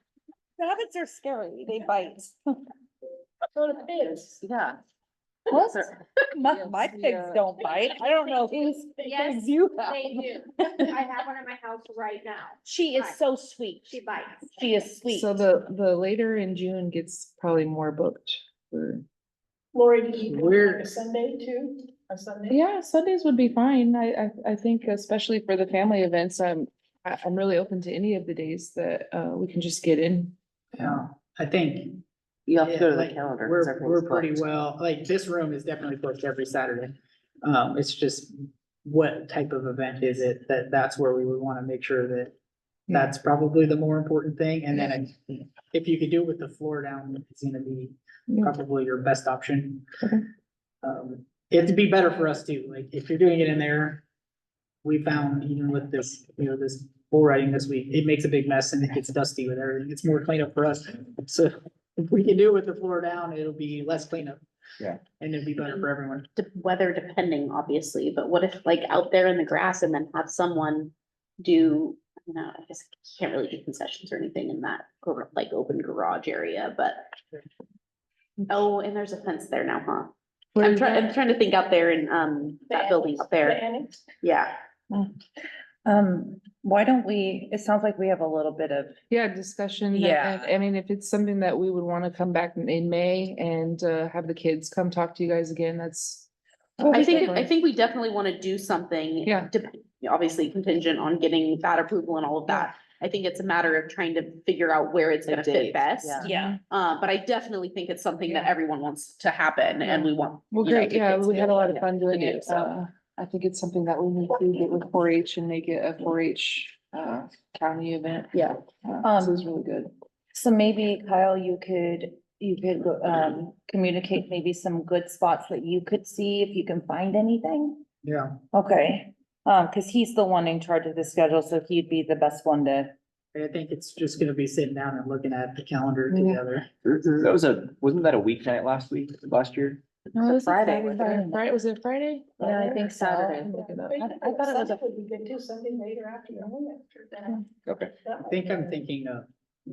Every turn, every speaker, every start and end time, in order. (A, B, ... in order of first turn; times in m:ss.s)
0:00.6-0:02.4 A
0:03.6-0:04.4 B
0:05.5-0:11.0 A
0:06.5-0:07.4 C
0:09.1-0:13.1 D
0:12.6-0:15.4 A
0:13.9-0:14.5 D
0:15.1-0:19.0 C
0:19.7-0:22.6 B
0:20.3-0:20.9 E
0:22.5-0:30.3 C
0:30.8-0:32.0 E
0:32.5-0:34.6 F
0:32.6-0:42.4 E
0:42.9-0:49.9 E
0:48.3-0:48.6 C
0:50.8-0:54.0 E
0:54.8-1:06.3 E
1:06.4-1:17.1 G
1:18.5-1:23.7 G
1:20.6-1:21.1 C
1:22.9-1:24.0 B
1:24.2-1:24.6 G
1:25.8-1:29.0 A
1:29.1-1:36.3 C
1:29.9-1:30.5 A
1:36.8-1:37.5 C
1:36.8-1:37.3 A
1:36.9-1:52.7 G
1:39.2-1:39.5 C
1:45.3-1:46.3 F
1:46.2-1:46.6 A
1:46.2-1:46.6 C
1:49.8-1:59.9 C
1:59.0-1:59.4 A
2:00.3-2:07.8 A
2:08.0-2:08.4 E
2:08.5-2:13.0 A
2:13.3-2:16.7 E
2:16.8-2:19.8 H
2:20.1-2:24.1 C
2:20.2-2:21.4 A
2:22.4-2:24.8 A
2:23.4-2:27.4 B
2:27.7-2:27.9 H
2:28.0-2:28.7 B
2:28.3-2:29.3 E